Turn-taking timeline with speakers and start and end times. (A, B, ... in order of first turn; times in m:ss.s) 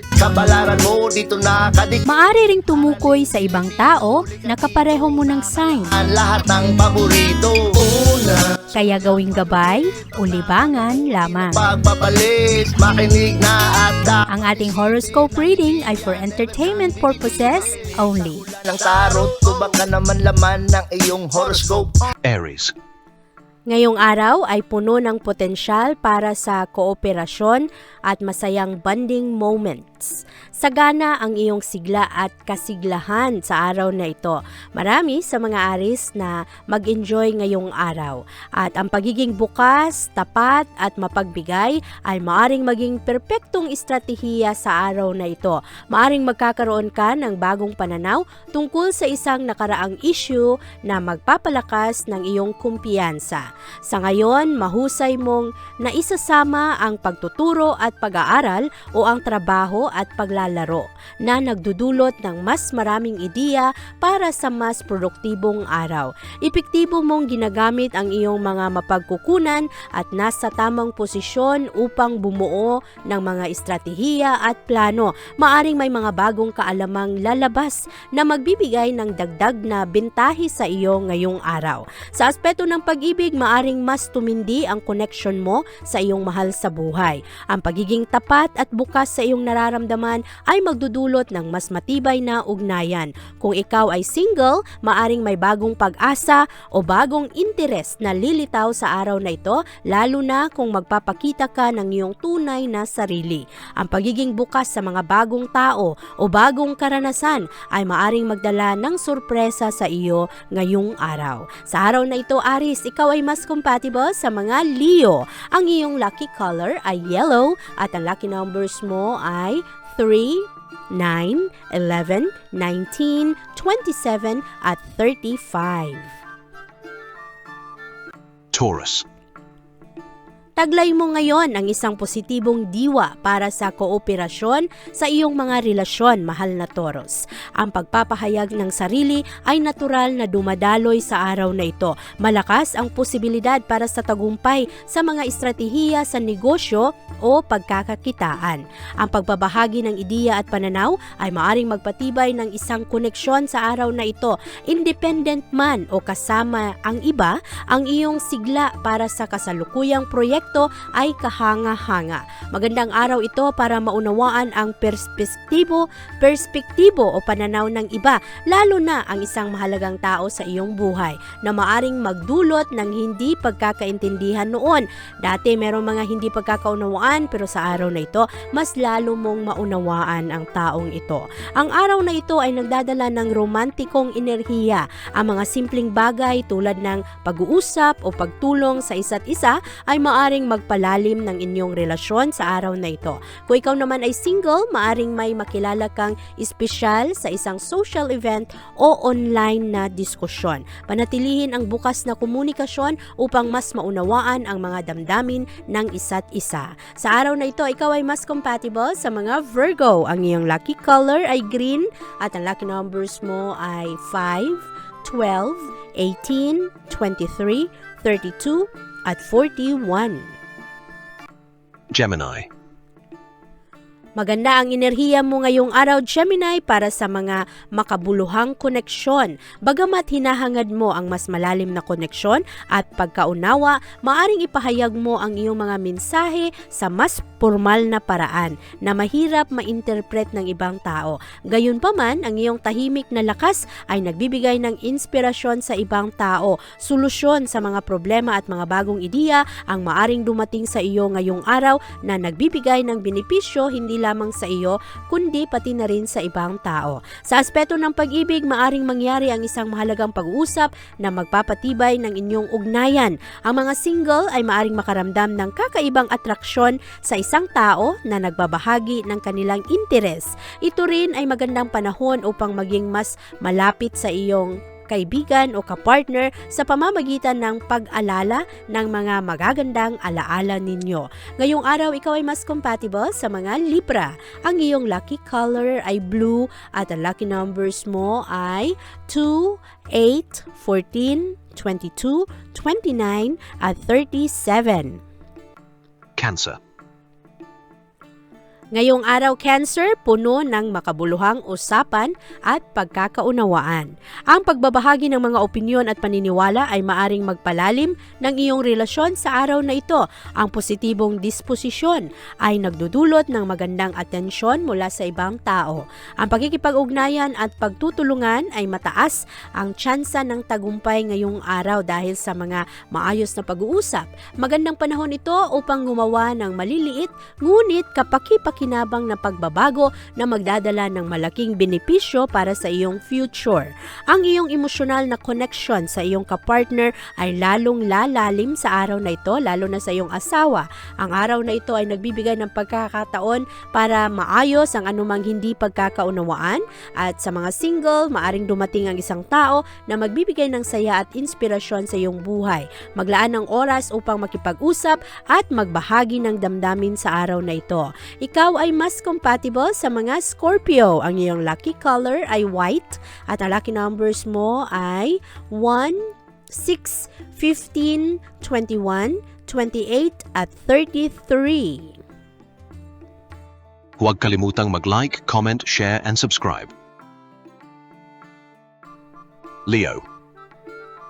0:00.2-0:02.0 A
0:02.1-0:06.0 B
0:06.0-0:08.4 A
0:08.7-0:11.6 B
0:11.6-0:14.3 A
0:14.3-0:18.4 B
0:16.5-0:22.0 A
0:22.2-0:22.7 C
0:23.7-2:06.1 B
2:08.5-2:09.0 C
2:10.6-3:40.3 B
3:41.9-3:42.5 C
3:44.2-4:55.0 B
4:56.2-4:56.6 C
4:58.7-6:12.0 B
6:14.0-6:16.7 C
6:19.7-6:20.0 C